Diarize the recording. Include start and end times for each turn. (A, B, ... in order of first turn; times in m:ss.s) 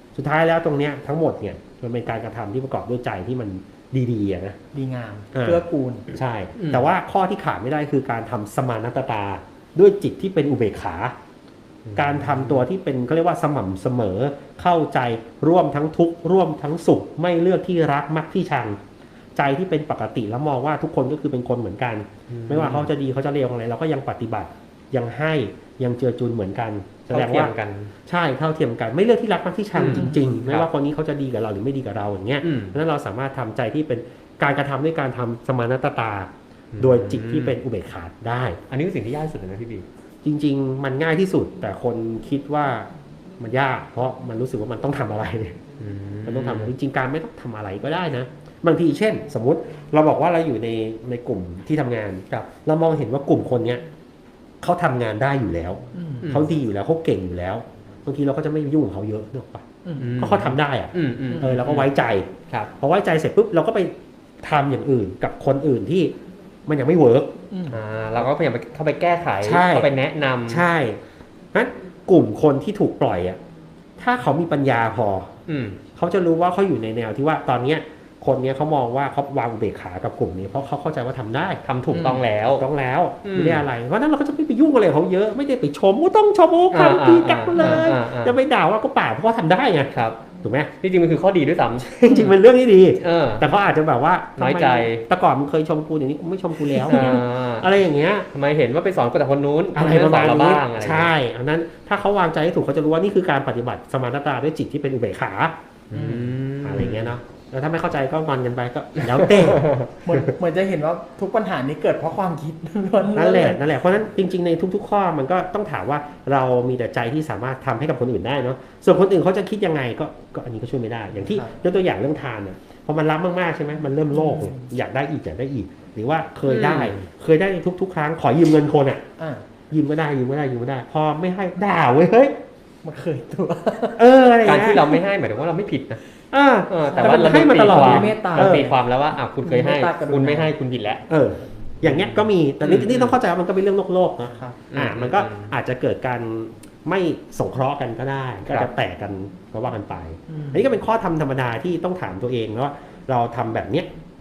0:00.1-0:04.6 A
0:04.7-0:06.1 B
0:05.3-0:05.6 A
0:06.1-0:11.1 A
0:06.6-0:06.9 C
0:11.8-0:12.6 C
0:11.9-0:18.8 A
0:19.4-0:27.5 A
0:22.3-0:22.9 C
0:27.1-0:27.9 C
0:28.0-0:38.6 A
0:29.7-0:30.7 C
0:29.8-0:30.2 B
0:32.4-0:32.8 C
0:36.7-0:37.6 C
0:38.7-0:39.9 C
0:40.2-0:45.6 A
0:45.8-0:46.7 C
0:46.2-0:53.8 A
0:54.6-0:59.6 A
0:55.9-0:56.3 B
0:56.2-0:56.5 C
0:59.8-1:00.2 B
1:00.0-1:01.9 C
1:00.2-1:06.1 A
1:06.6-1:07.3 A
1:07.5-1:07.8 B
1:07.7-1:10.6 C
1:09.4-1:09.9 A
1:10.5-1:11.0 A
1:11.5-1:13.4 A
1:14.0-1:15.3 A
1:15.5-1:15.8 C
1:15.9-1:30.7 A
1:21.6-1:22.6 C
1:21.9-1:22.2 B
1:23.2-1:23.6 C
1:26.7-1:28.4 C
1:27.6-1:27.8 B
1:29.9-1:30.2 C
1:30.8-1:32.4 C
1:31.8-1:38.3 A
1:33.0-1:33.4 C
1:34.4-1:35.0 C
1:36.8-1:37.7 C
1:38.3-1:41.1 C
1:39.7-1:45.6 A
1:45.9-1:47.1 C
1:45.9-1:46.3 B
1:46.6-1:50.2 A
1:49.0-1:49.8 C
1:50.0-1:53.6 B
1:53.1-2:09.0 A
2:01.1-2:01.6 B
2:04.1-2:04.7 B
2:06.4-2:07.1 C
2:09.2-2:09.4 B
2:09.7-2:12.4 A
2:12.8-2:14.6 B
2:14.0-2:15.0 A
2:14.4-2:16.0 C
2:16.3-2:18.7 A
2:16.7-2:21.0 C
2:17.0-2:18.8 B
2:19.4-2:20.5 B
2:21.1-2:33.9 A
2:21.8-2:23.2 C
2:24.3-2:24.6 B
2:24.7-2:25.5 C
2:28.4-2:28.7 C
2:30.3-2:30.6 B